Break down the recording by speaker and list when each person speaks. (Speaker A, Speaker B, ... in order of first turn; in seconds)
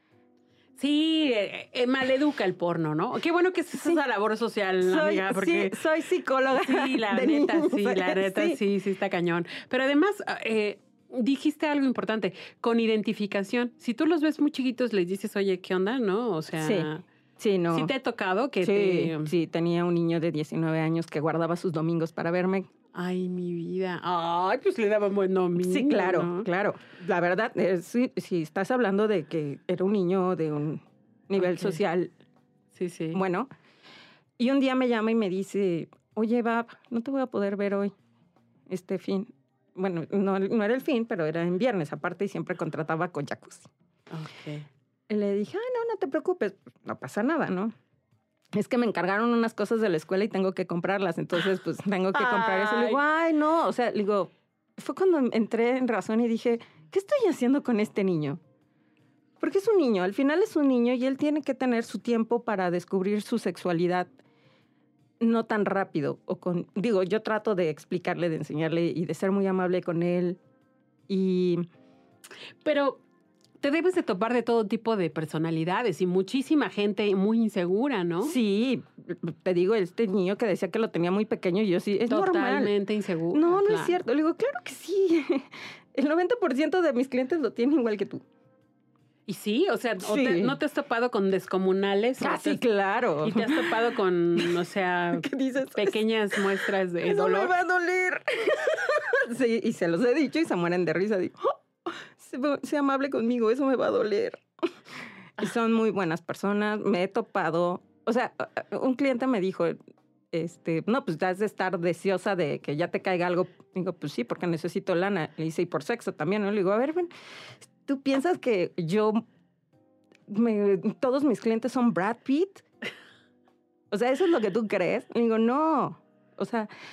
Speaker A: 0.8-5.8, 6.5-17.0, 17.7-19.3, 22.9-26.5, 31.4-31.8, 32.7-33.2, 44.1-44.7, 52.1-53.0, 72.6-73.0, 73.6-78.3, 82.1-84.0, 89.3-92.6, 93.2-97.5
Speaker B: 4.8-8.6, 16.6-17.9, 18.6-22.7, 25.6-32.1, 33.1-33.5, 34.4-37.9, 38.7-43.7, 45.1-47.7, 48.5-58.4, 59.4-64.1, 65.2-70.4, 71.1-71.6, 78.2-82.7, 83.3-88.2, 90.0-90.6, 92.2-93.8, 95.1-96.5, 97.0-109.8, 110.3-117.1, 117.6-119.2, 120.3-122.6, 123.9-126.7